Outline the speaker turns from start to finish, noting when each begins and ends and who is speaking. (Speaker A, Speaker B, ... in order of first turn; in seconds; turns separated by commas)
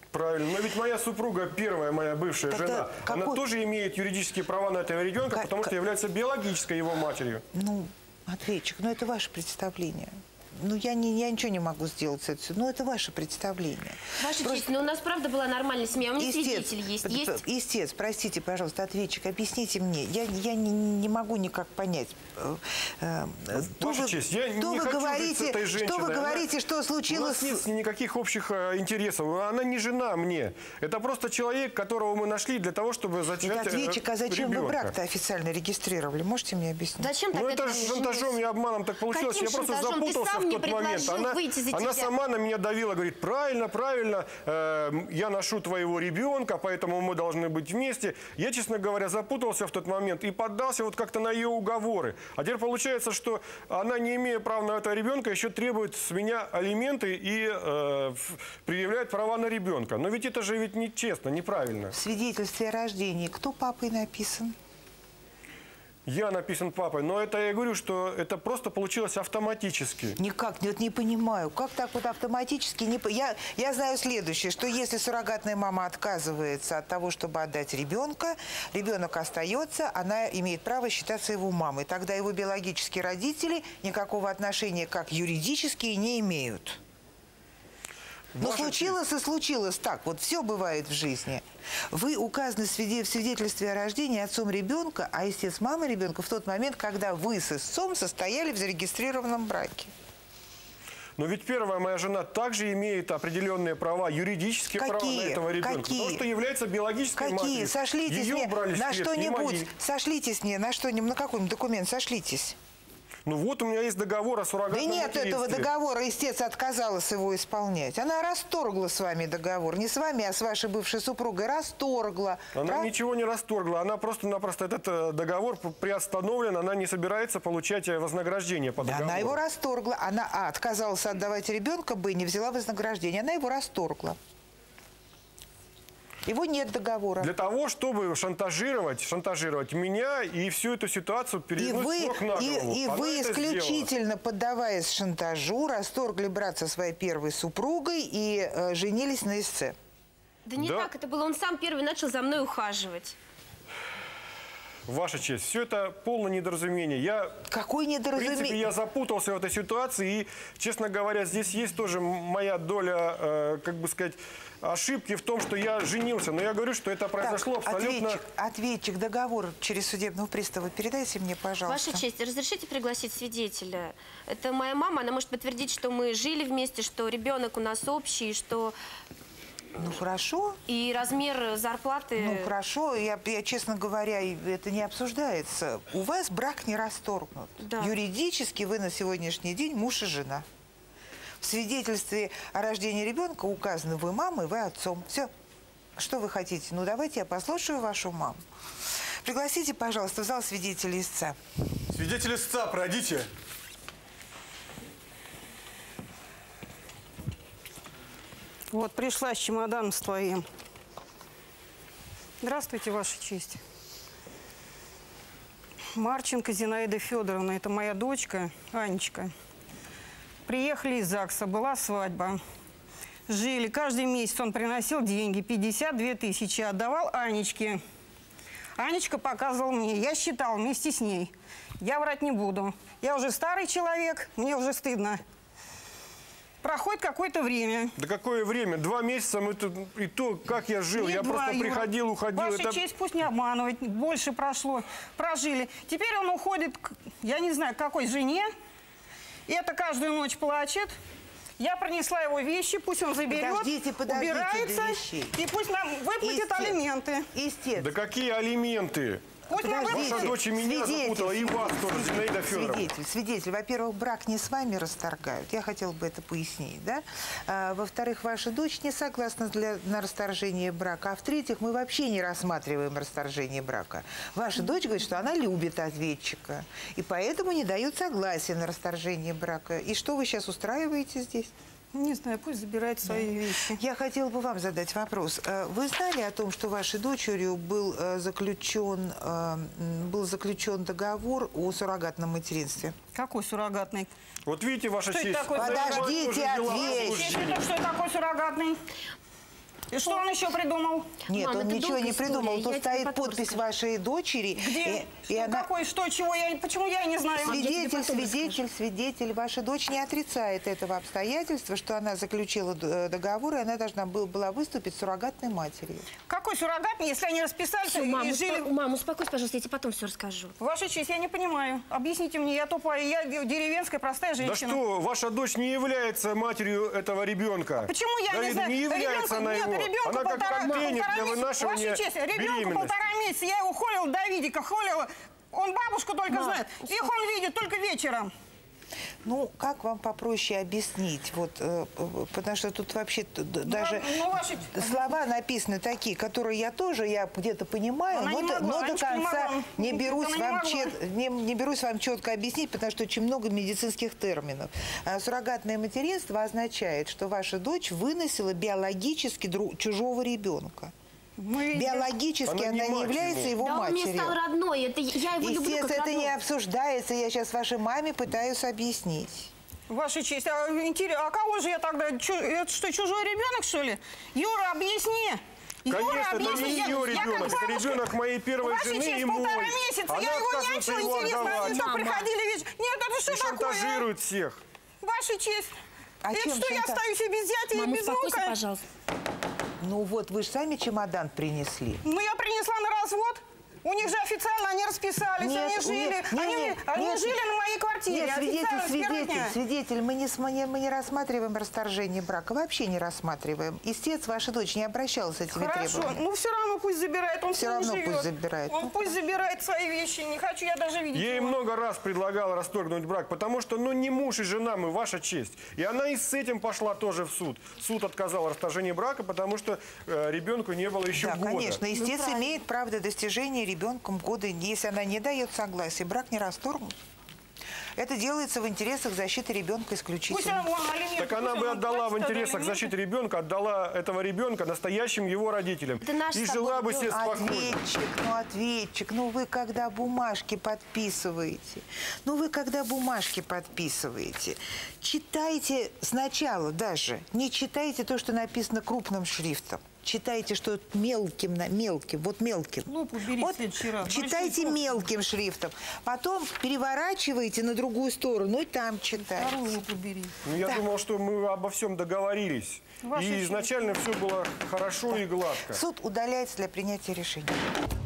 Speaker A: 0.1-7.4, Speaker B: 2.5-3.4, Speaker B: 5.3-5.7, Speaker B: 7.5-14.8, Speaker C: 14.2-17.4, Speaker B: 16.2-27.6, Speaker A: 23.6-26.5, Speaker A: 27.1-34.9, Speaker B: 33.4-37.1, Speaker C: 37.0-38.4, Speaker A: 37.3-62.0, Speaker C: 39.1-42.1, Speaker B: 61.9-64.5, Speaker A: 66.1-70.2, Speaker B: 70.2-86.8, Speaker A: 88.3-89.0, Speaker B: 88.4-99.9, Speaker A: 101.2-109.7, Speaker B: 104.8-106.2, Speaker B: 107.2-112.6, Speaker A: 113.3-115.7, Speaker B: 114.7-122.9, Speaker A: 122.5-129.4, Speaker B: 128.8-134.2, Speaker B: 136.3-137.3, Speaker A: 137.2-143.9, Speaker B: 141.6-149.8, Speaker C: 150.4-153.2, Speaker A: 150.6-150.9, Speaker A: 154.9-157.4, Speaker B: 157.5-158.7, Speaker A: 158.2-168.2, Speaker B: 167.2-172.0, Speaker C: 171.7-178.8, Speaker B: 179.8-180.6, Speaker C: 180.7-182.5, Speaker B: 182.2-190.5, Speaker C: 187.6-187.9, Speaker B: 191.4-195.3, Speaker B: 196.0-198.4, Speaker B: 199.2-201.4, Speaker A: 201.9-203.3, Speaker D: 208.7-210.5, Speaker D: 212.4-213.6, Speaker D: 215.9-219.3, Speaker D: 220.5-222.4, Speaker D: 223.3-227.8, Speaker D: 228.8-235.2, Speaker D: 236.6-237.9, Speaker A: 238.0-242.8, Speaker D: 240.9-248.5, Speaker D: 249.5-250.9, Speaker D: 251.6-257.3, Speaker B: 253.3-255.4, Speaker B: 256.2-258.0, Speaker A: 257.8-259.2, Speaker D: 259.5-260.3, Speaker B: 259.6-281.5, Speaker A: 259.9-262.9, Speaker D: 281.9-283.8, Speaker B: 283.1-293.0, Speaker D: 293.1-294.1, Speaker A: 294.5-297.6, Speaker D: 295.1-298.8, Speaker B: 295.6-297.6, Speaker D: 299.9-301.2, Speaker B: 301.3-305.7, Speaker C: 301.3-303.6, Speaker D: 304.6-307.8, Speaker C: 307.4-308.6, Speaker B: 307.4-316.1, Speaker D: 316.3-318.7, Speaker C: 317.9-320.6, Speaker D: 320.6-324.8, Speaker A: 324.4-333.1, Speaker D: 327.9-338.3, Speaker C: 336.3-337.1, Speaker B: 339.2-360.9, Speaker D: 343.6-345.1, Speaker D: 348.1-350.9, Speaker D: 361.4-362.1, Speaker B: 361.7-364.4, Speaker A: 362.5-363.6, Speaker C: 363.6-366.4, Speaker B: 365.3-369.5, Speaker D: 369.9-378.0, Speaker A: 375.9-382.0, Speaker D: 378.6-384.1, Speaker C: 381.0-382.3, Speaker A: 383.3-384.6, Speaker D: 385.0-385.7, Speaker B: 386.2-387.0, Speaker D: 386.3-388.6, Speaker C: 387.7-388.8, Speaker B: 389.8-392.0, Speaker D: 392.0-399.6, Speaker B: 395.4-397.4, Speaker B: 398.1-406.2, Speaker D: 405.5-411.6, Speaker B: 407.5-408.9, Speaker A: 411.1-421.8, Speaker B: 421.1-427.0, Speaker C: 422.0-422.5, Speaker B: 428.0-430.7, Speaker D: 430.3-432.9, Speaker A: 431.2-437.8, Speaker C: 436.0-437.5, Speaker B: 437.1-459.7, Speaker D: 452.9-455.1, Speaker D: 459.2-460.4, Speaker A: 460.4-465.8, Speaker D: 463.0-464.0, Speaker B: 465.2-467.6